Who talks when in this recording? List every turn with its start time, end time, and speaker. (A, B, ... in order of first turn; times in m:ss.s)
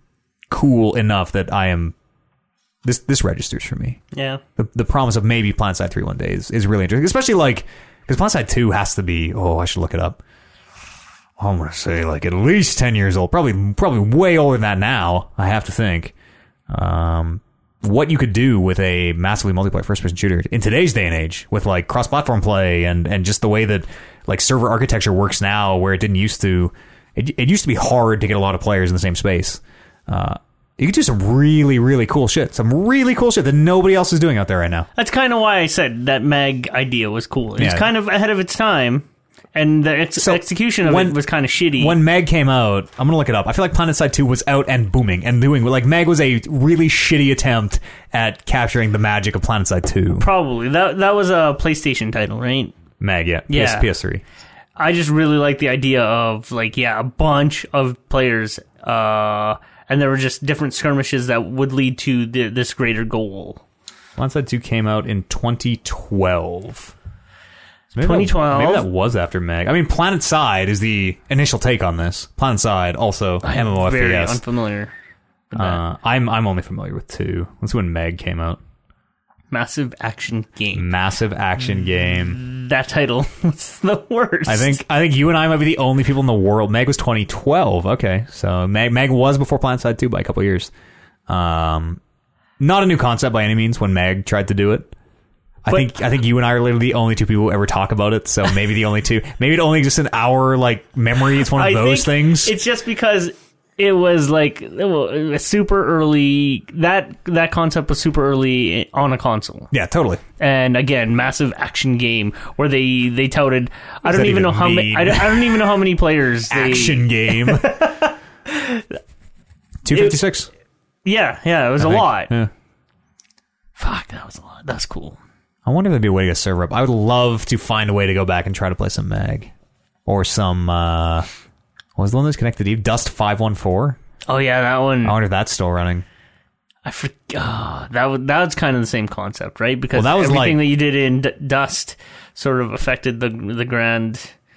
0:00.5-0:02.0 A
0:02.8-0:04.0 A
0:04.1-0:04.4 B
0:04.6-0:10.2 A
0:11.4-0:16.1 A
0:16.7-0:34.9 A
0:35.0-0:42.0 B
0:37.6-0:37.9 A
0:40.2-0:41.2 A
0:41.8-0:50.3 A
0:50.2-0:52.7 B
0:53.0-0:54.2 A
0:53.5-0:53.9 B
0:54.8-1:03.6 B
1:04.2-1:06.9 A
1:07.9-1:14.4 A
1:08.0-1:08.9 B
1:13.4-1:14.9 B
1:15.5-1:15.8 B
1:15.6-1:18.6 A
1:19.5-1:20.9 B
1:20.7-1:22.4 A
1:22.4-1:24.8 B
1:24.5-1:30.7 A
1:31.3-1:32.0 A
1:32.6-1:34.9 A
1:35.6-1:42.5 A
1:41.5-1:49.7 B
1:49.7-1:50.2 A
1:50.4-1:58.8 B
1:54.1-1:55.7 A
1:56.5-1:57.9 A
1:59.8-2:00.5 A
1:59.9-2:00.2 B
2:01.0-2:02.3 B
2:01.8-2:02.5 A
2:03.8-2:05.2 B
2:05.6-2:09.5 A
2:10.1-2:11.3 A
2:12.0-2:14.0 A
2:14.3-2:15.2 B
2:15.0-2:16.0 A
2:16.8-2:24.3 B
2:19.9-2:20.6 A